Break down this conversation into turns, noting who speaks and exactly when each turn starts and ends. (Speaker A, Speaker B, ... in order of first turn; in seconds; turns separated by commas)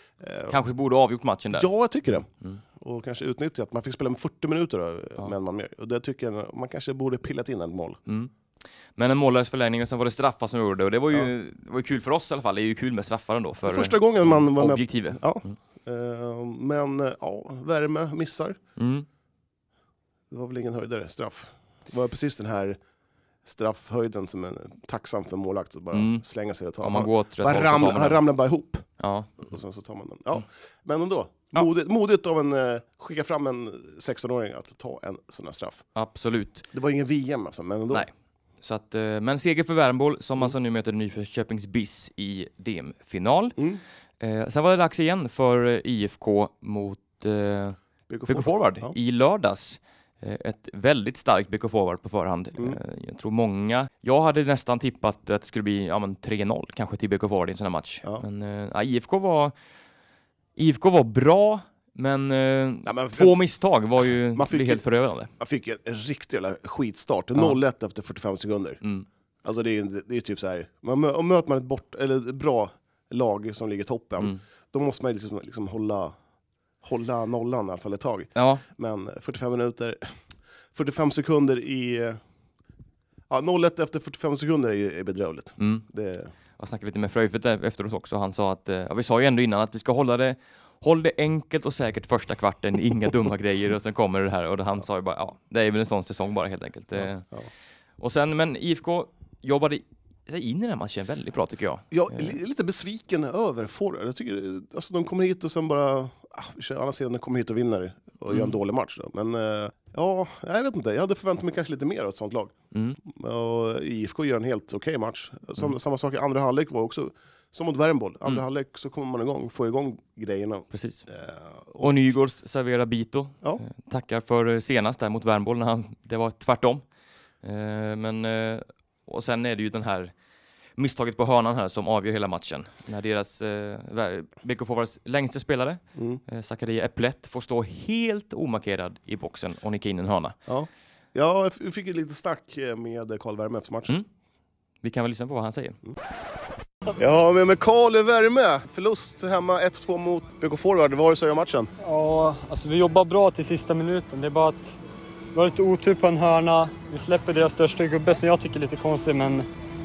Speaker A: 0.2-0.6, Speaker B: 0.5-1.7, Speaker A: 1.5-8.0, Speaker B: 8.9-15.5, Speaker A: 13.6-18.6, Speaker B: 18.8-19.1, Speaker A: 20.3-22.8, Speaker A: 23.4-28.9, Speaker B: 25.9-26.2, Speaker B: 26.8-28.2, Speaker B: 29.0-29.5, Speaker A: 29.4-35.8, Speaker B: 36.0-36.6, Speaker A: 36.7-38.1, Speaker B: 38.6-43.6, Speaker B: 44.2-59.5, Speaker A: 48.1-48.9, Speaker B: 60.5-65.3, Speaker A: 62.9-63.4, Speaker A: 64.3-64.8, Speaker A: 65.4-68.8, Speaker B: 68.8-69.1, Speaker A: 69.4-76.2, Speaker A: 76.8-80.1, Speaker B: 78.3-78.6, Speaker A: 80.7-82.2, Speaker A: 83.3-86.3, Speaker B: 85.6-85.8, Speaker B: 86.6-97.2, Speaker A: 97.0-97.5, Speaker B: 98.0-102.4, Speaker A: 101.9-121.9, Speaker B: 108.3-108.5, Speaker B: 112.7-113.0, Speaker B: 120.7-121.0, Speaker B: 121.8-126.8, Speaker B: 127.4-130.1, Speaker B: 130.8-140.4, Speaker A: 135.9-136.2, Speaker A: 140.5-143.9, Speaker B: 144.8-145.8, Speaker A: 146.9-151.7, Speaker C: 151.8-154.8, Speaker C: 155.3-159.4